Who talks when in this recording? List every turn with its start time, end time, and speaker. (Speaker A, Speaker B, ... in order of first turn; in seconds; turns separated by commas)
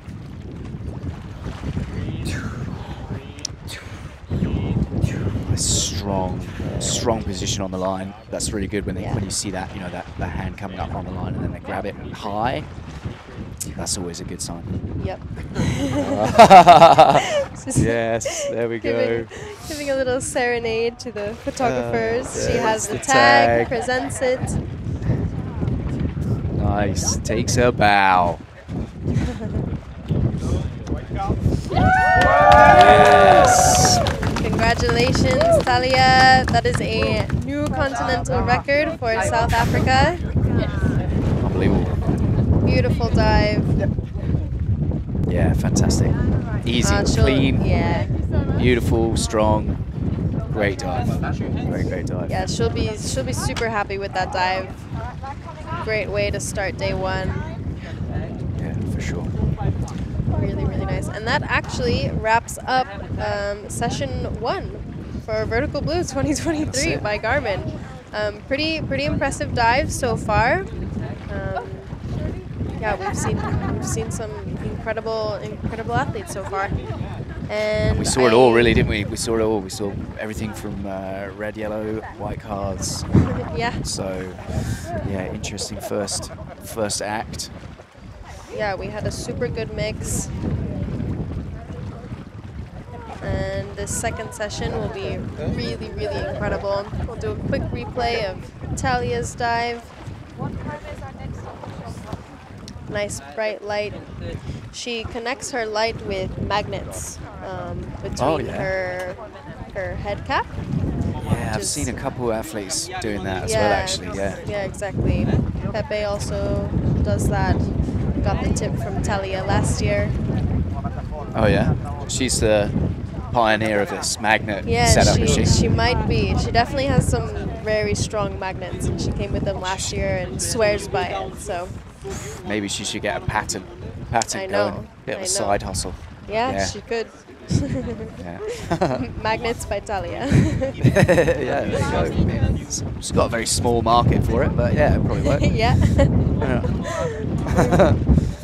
Speaker A: 5.3-15.2, Speaker B: 8.9-9.2, Speaker B: 15.0-16.4, Speaker A: 15.9-19.3, Speaker B: 17.5-24.6, Speaker A: 21.6-23.8, Speaker A: 26.5-28.4, Speaker A: 32.6-34.1, Speaker B: 34.2-40.4, Speaker A: 41.4-42.1, Speaker B: 42.6-43.8, Speaker A: 45.2-47.8, Speaker B: 46.8-48.2, Speaker A: 48.4-52.4, Speaker B: 52.3-55.1, Speaker B: 55.7-57.5, Speaker A: 58.5-59.7, Speaker B: 60.3-72.2, Speaker A: 66.7-67.0, Speaker B: 72.7-78.8, Speaker A: 77.9-87.6, Speaker B: 83.4-83.8, Speaker B: 88.5-90.3, Speaker B: 93.2-99.9, Speaker B: 102.8-111.9, Speaker A: 108.2-108.7, Speaker A: 111.2-114.5, Speaker B: 113.4-120.2, Speaker A: 121.3-125.7, Speaker B: 124.6-131.9, Speaker A: 129.5-130.0, Speaker A: 132.3-136.8, Speaker B: 134.3-140.9, Speaker A: 138.2-139.1, Speaker A: 140.8-148.1, Speaker B: 145.2-147.8